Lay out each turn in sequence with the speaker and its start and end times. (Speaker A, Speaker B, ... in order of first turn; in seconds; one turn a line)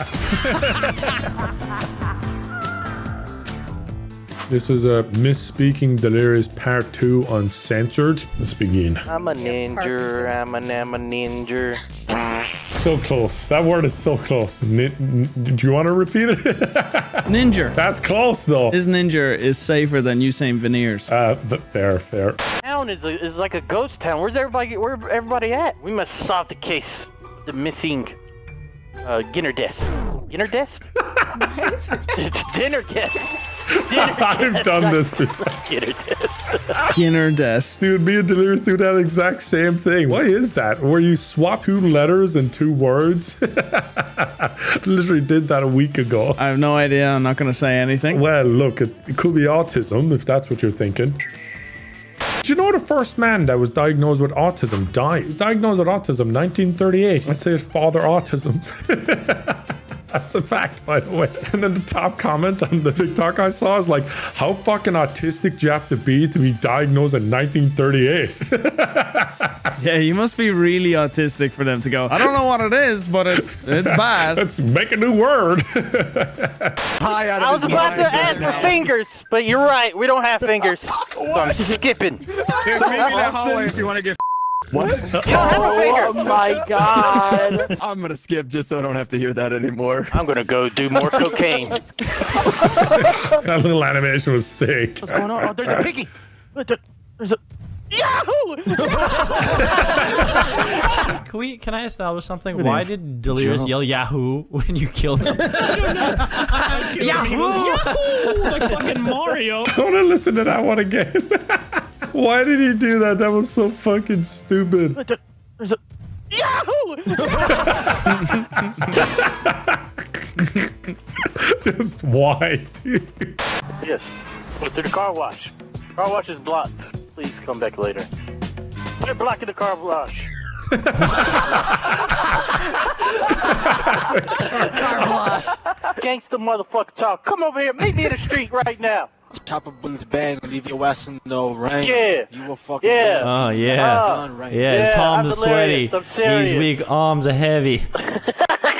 Speaker A: 4.5-9.1
Speaker B: 9.1-11.8
Speaker A: 12.8-18.8
Speaker C: 17.3-17.8
Speaker C: 18.7-21.1
Speaker A: 21.1-22.4
Speaker B: 22.6-28.2
Speaker B: 29.0-30.8
Speaker A: 31.2-31.7
Speaker B: 31.9-36.8
Speaker A: 33.7-35.6
Speaker C: 36.9-37.9
Speaker A: 37.8-46.4
Speaker C: 46.4-48.2
Speaker A: 48.1-51.2
Speaker A: 52.4-69.6
Speaker C: 69.8-74.4
Speaker A: 72.1-72.4
Speaker A: 73.3-76.8
Speaker D: 77.0-78.8
Speaker B: 77.4-83.4
Speaker C: 77.7-78.7
Speaker D: 81.1-81.6
Speaker D: 82.5-84.1
Speaker D: 84.7-90.2
Speaker B: 85.2-86.5
Speaker B: 90.1-91.8
Speaker A: 92.8-95.8
Speaker B: 95.0-97.4
Speaker B: 97.9-101.0
Speaker E: 100.1-109.0
Speaker F: 105.5-109.7
Speaker A: 109.6-115.0
Speaker B: 115.0-115.8
Speaker B: 116.3-118.0
Speaker A: 117.4-119.8
Speaker A: 120.4-120.7
Speaker A: 121.2-123.3
Speaker B: 123.8-124.1
Speaker B: 124.6-128.1
Speaker B: 129.0-130.3
Speaker A: 130.7-131.7
Speaker A: 133.8-134.7
Speaker E: 134.4-135.6
Speaker B: 135.9-139.1
Speaker G: 139.3-145.0
Speaker B: 141.8-142.3
Speaker B: 142.8-146.7
Speaker E: 143.2-147.9
Speaker B: 148.3-148.7